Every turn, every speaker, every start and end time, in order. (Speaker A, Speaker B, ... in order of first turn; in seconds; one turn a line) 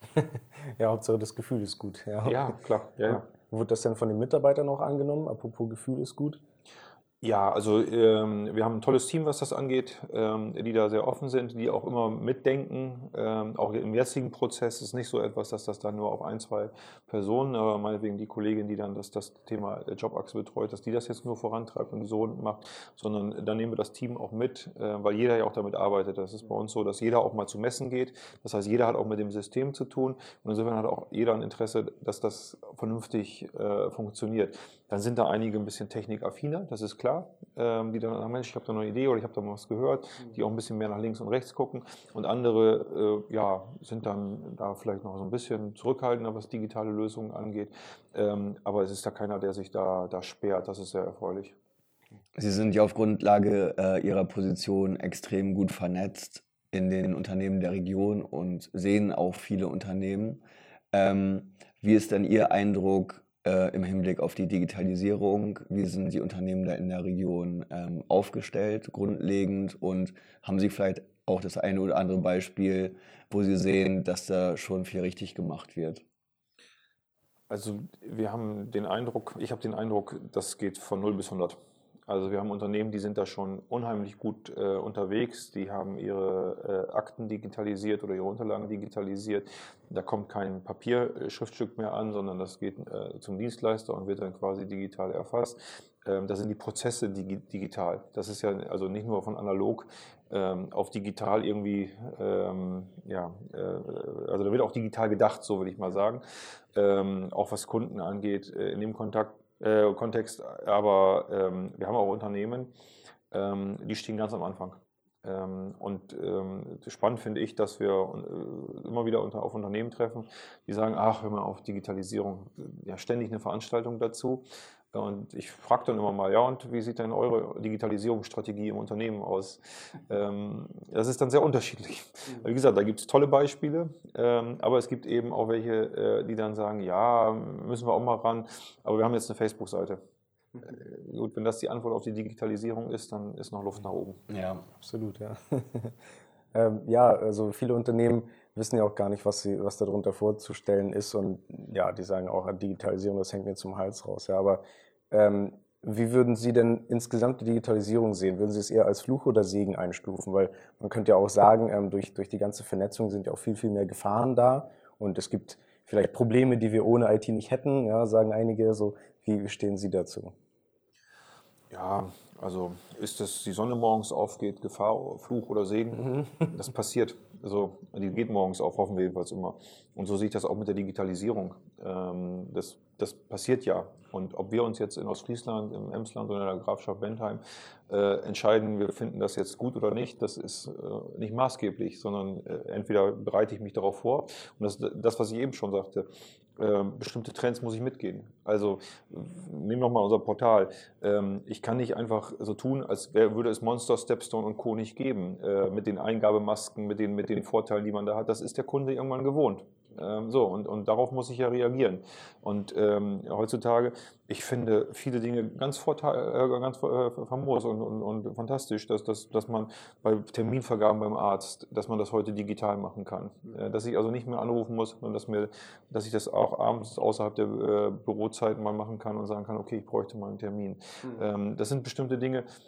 Speaker A: 0.1-2.5
Speaker B: 2.2-3.3
Speaker A: 3.1-6.4
Speaker B: 7.2-51.5
Speaker C: 52.4-76.0
Speaker B: 77.5-106.2
Speaker B: 106.8-112.7
Speaker B: 113.3-140.0
Speaker B: 140.6-144.2
Speaker C: 144.3-144.7
Speaker A: 144.8-146.0
Speaker A: 146.5-170.3
Speaker B: 171.7-232.5